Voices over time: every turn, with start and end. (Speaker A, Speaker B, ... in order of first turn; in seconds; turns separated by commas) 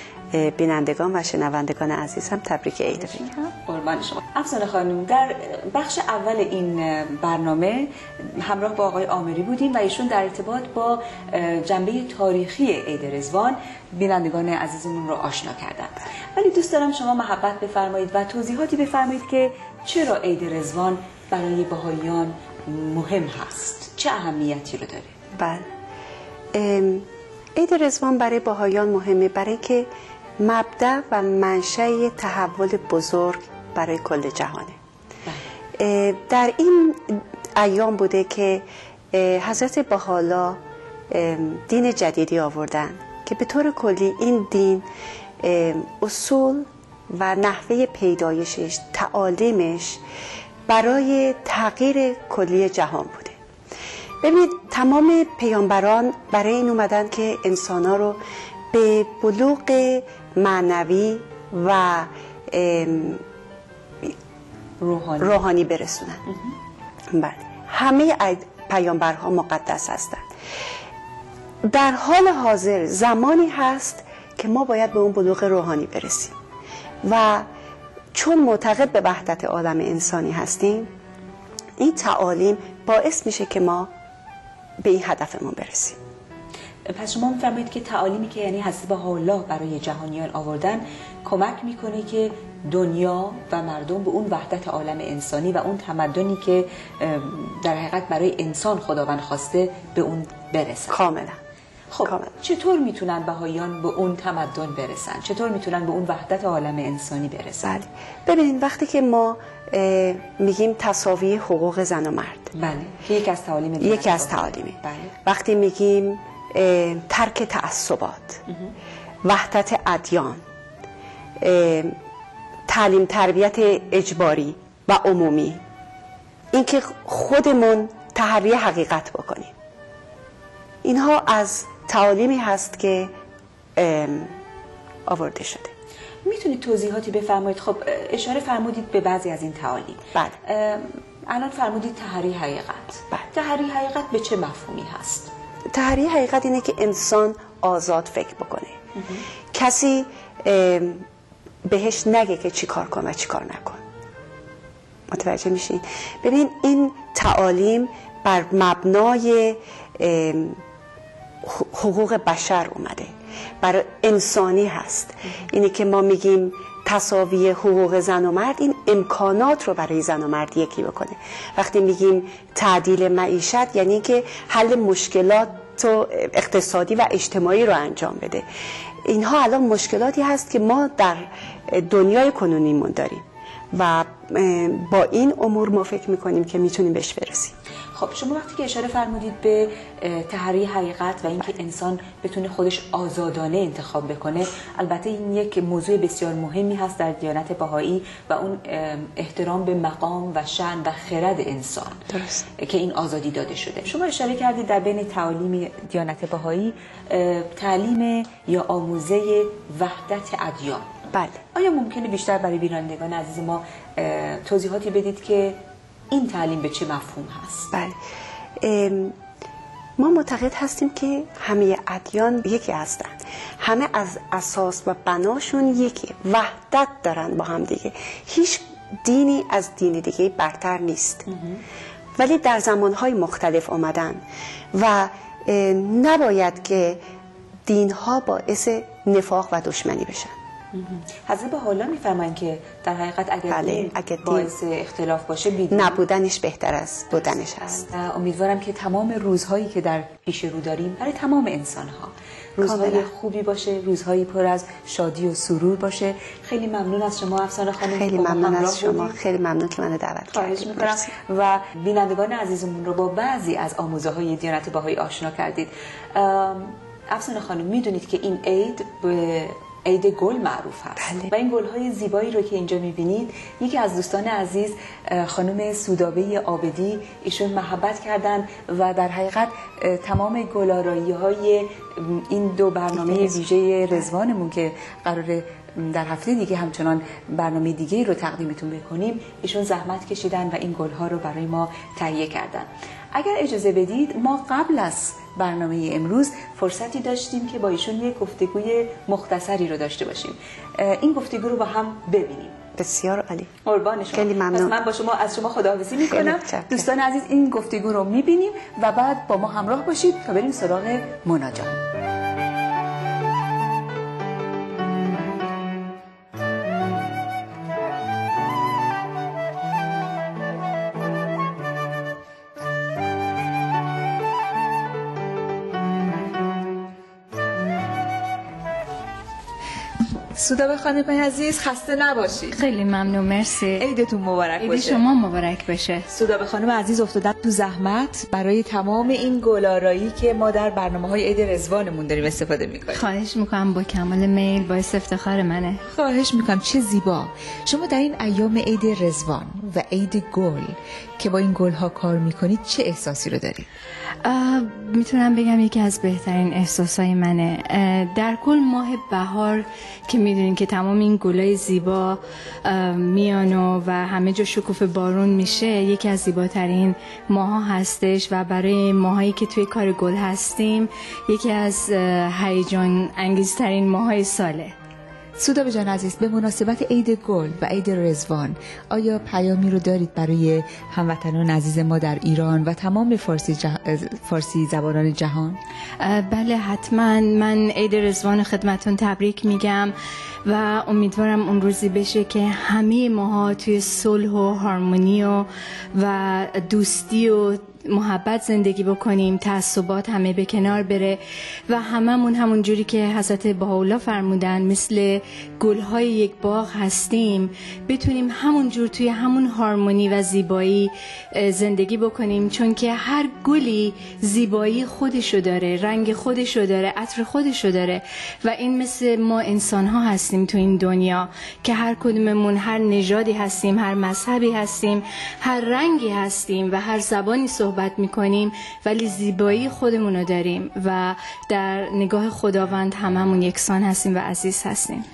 Speaker A: 0.3-3.3, Speaker B: 3.1-25.1, Speaker A: 25.4-25.6, Speaker A: 26.5-29.9, Speaker A: 30.4-34.8, Speaker A: 35.8-40.6, Speaker A: 41.1-44.9, Speaker A: 45.4-50.0, Speaker A: 50.7-53.4, Speaker A: 54.2-58.2, Speaker A: 58.7-63.2, Speaker B: 64.8-65.4, Speaker A: 65.2-66.2, Speaker A: 67.1-70.2, Speaker A: 71.6-76.3, Speaker A: 77.0-77.5, Speaker A: 78.1-80.9, Speaker A: 81.8-83.9, Speaker A: 84.8-86.0, Speaker B: 86.8-101.0, Speaker A: 100.9-101.4, Speaker B: 101.9-107.7, Speaker A: 102.0-102.3, Speaker A: 107.6-112.5, Speaker B: 112.5-115.1, Speaker A: 113.8-118.4, Speaker B: 118.5-118.7, Speaker A: 119.2-120.4, Speaker A: 121.4-121.9, Speaker A: 122.7-125.6, Speaker A: 126.5-129.5, Speaker A: 130.8-133.1, Speaker A: 133.8-134.3, Speaker A: 135.1-135.7, Speaker B: 136.2-145.3, Speaker A: 145.7-148.7, Speaker A: 149.5-151.0, Speaker A: 151.7-153.8, Speaker A: 155.1-160.6, Speaker A: 161.4-178.4, Speaker A: 179.0-187.5, Speaker B: 187.9-202.0, Speaker A: 202.1-202.5, Speaker B: 202.6-210.9, Speaker A: 211.1-211.4, Speaker B: 211.5-215.6, Speaker B: 216.1-217.7, Speaker A: 217.7-218.0, Speaker A: 218.6-219.1, Speaker A: 220.0-231.3, Speaker B: 231.3-231.6, Speaker A: 232.2-234.2, Speaker A: 234.7-237.0, Speaker A: 237.7-240.3, Speaker B: 240.7-246.0, Speaker A: 243.5-244.5, Speaker A: 245.7-247.9, Speaker B: 247.9-259.1, Speaker A: 252.6-253.1, Speaker A: 257.8-261.1, Speaker B: 260.3-302.6, Speaker A: 282.9-283.4, Speaker A: 302.8-303.5, Speaker B: 303.6-311.8, Speaker A: 304.1-304.8, Speaker A: 306.0-306.9, Speaker B: 330.3-332.6, Speaker C: 332.5-333.8, Speaker B: 333.8-335.0, Speaker C: 334.6-336.1, Speaker B: 336.1-343.0, Speaker C: 342.9-345.8, Speaker B: 345.9-353.6, Speaker C: 354.2-374.7, Speaker B: 375.4-385.6, Speaker C: 386.0-389.9, Speaker C: 390.4-435.1